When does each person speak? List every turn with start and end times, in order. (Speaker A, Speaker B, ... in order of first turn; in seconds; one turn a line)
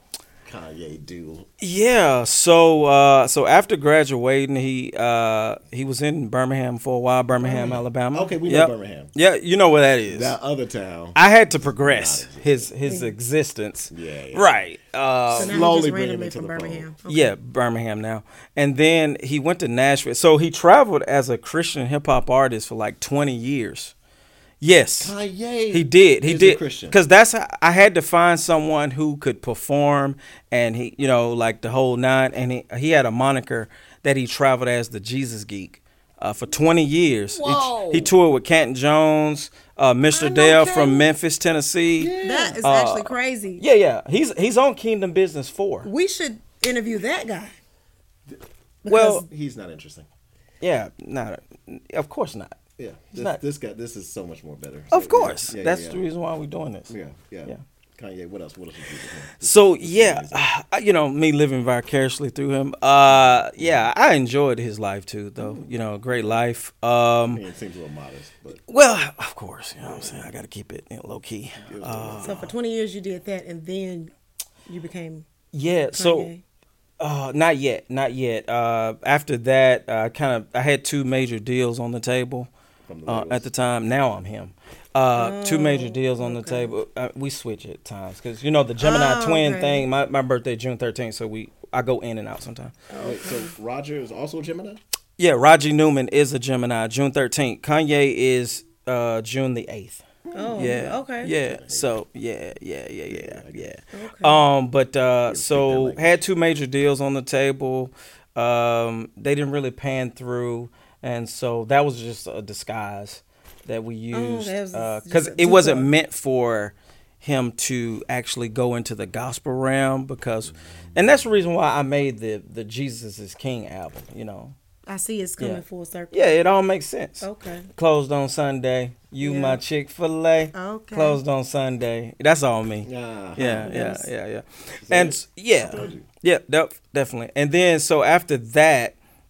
Speaker A: 0.5-1.5
Speaker B: 1.6-10.4
Speaker A: 7.4-9.1
Speaker A: 10.1-12.7
Speaker B: 11.2-15.6
Speaker C: 12.8-13.1
Speaker A: 13.9-14.7
Speaker A: 15.3-16.9
Speaker C: 15.3-17.4
Speaker B: 17.1-23.9
Speaker B: 24.6-25.1
Speaker A: 25.0-27.0
Speaker B: 25.7-45.9
Speaker A: 37.4-38.1
Speaker A: 40.1-41.0
Speaker A: 42.0-42.6
Speaker C: 42.2-43.6
Speaker C: 45.9-47.5
Speaker C: 48.8-49.3
Speaker B: 48.9-49.2
Speaker A: 49.2-50.1
Speaker B: 50.6-52.6
Speaker A: 52.8-56.0
Speaker B: 53.1-53.4
Speaker B: 54.9-56.9
Speaker A: 56.9-60.5
Speaker B: 59.4-67.4
Speaker A: 63.1-63.9
Speaker A: 65.4-66.4
Speaker A: 67.3-68.6
Speaker B: 68.7-72.5
Speaker A: 69.8-70.3
Speaker A: 71.6-72.4
Speaker C: 72.2-74.1
Speaker C: 74.7-75.3
Speaker B: 75.5-76.3
Speaker C: 75.9-76.4
Speaker B: 77.0-82.5
Speaker A: 82.9-83.5
Speaker B: 83.1-92.7
Speaker C: 85.2-86.8
Speaker C: 88.8-89.9
Speaker C: 92.9-93.5
Speaker A: 93.0-94.8
Speaker B: 95.2-100.0
Speaker A: 100.3-101.9
Speaker C: 100.3-101.3
Speaker B: 100.6-124.6
Speaker A: 103.1-103.7
Speaker C: 103.9-104.4
Speaker A: 105.3-106.2
Speaker C: 114.1-115.9
Speaker A: 121.0-121.2
Speaker C: 124.9-126.4
Speaker B: 125.4-139.0
Speaker C: 127.2-127.7
Speaker C: 129.2-129.6
Speaker C: 130.5-131.2
Speaker A: 132.8-133.8
Speaker C: 133.7-134.1
Speaker A: 134.8-136.1